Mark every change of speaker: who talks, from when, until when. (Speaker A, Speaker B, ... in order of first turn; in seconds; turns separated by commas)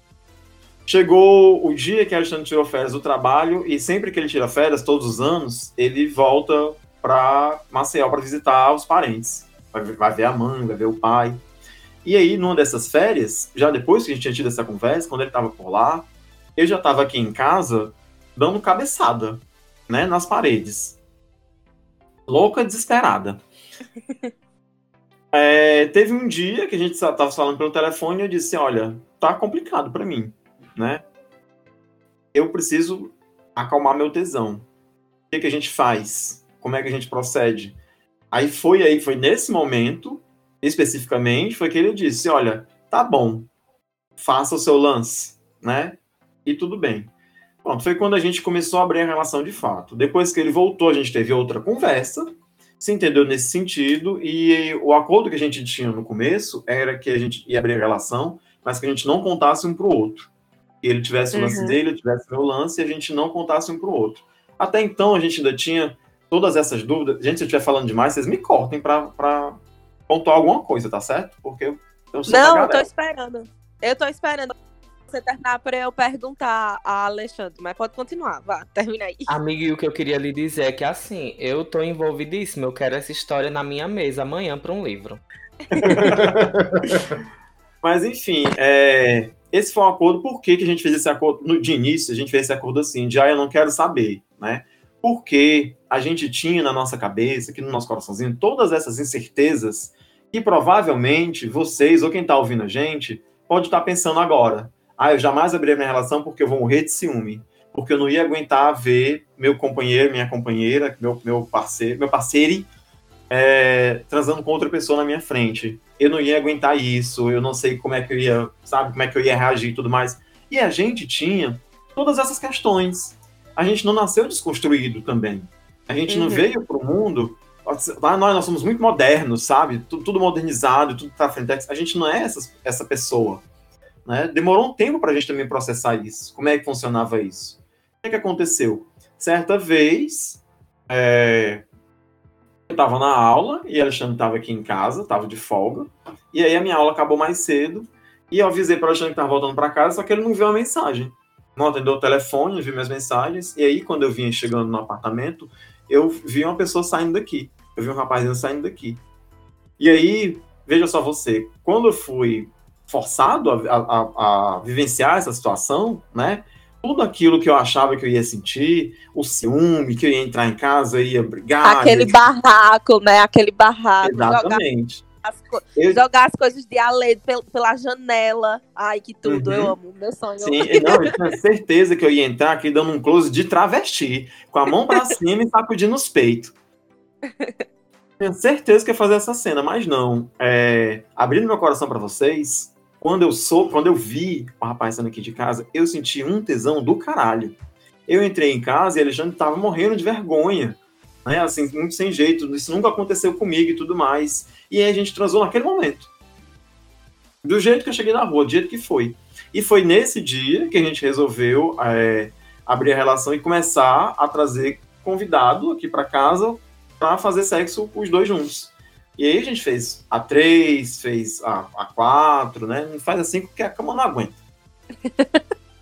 Speaker A: 0.9-11.4, Speaker A: 12.0-21.0, Speaker A: 22.3-23.4, Speaker A: 25.3-31.0, Speaker A: 32.3-34.6, Speaker A: 35.3-37.8, Speaker A: 38.3-43.5, Speaker A: 44.2-47.1, Speaker A: 47.6-60.3, Speaker A: 60.8-72.9, Speaker B: 61.3-61.8, Speaker B: 72.3-74.5, Speaker B: 75.1-79.3, Speaker C: 79.3-85.2, Speaker B: 85.7-86.0, Speaker A: 85.8-86.9, Speaker A: 87.8-112.7, Speaker A: 113.3-133.4, Speaker B: 126.1-126.5, Speaker A: 134.1-141.7, Speaker A: 142.7-159.0, Speaker A: 159.8-172.3, Speaker B: 171.6-174.6, Speaker A: 174.0-175.0, Speaker B: 175.2-181.1, Speaker A: 179.2-179.8, Speaker A: 180.4-186.5, Speaker A: 188.2-206.1, Speaker A: 207.4-224.4, Speaker B: 225.1-225.4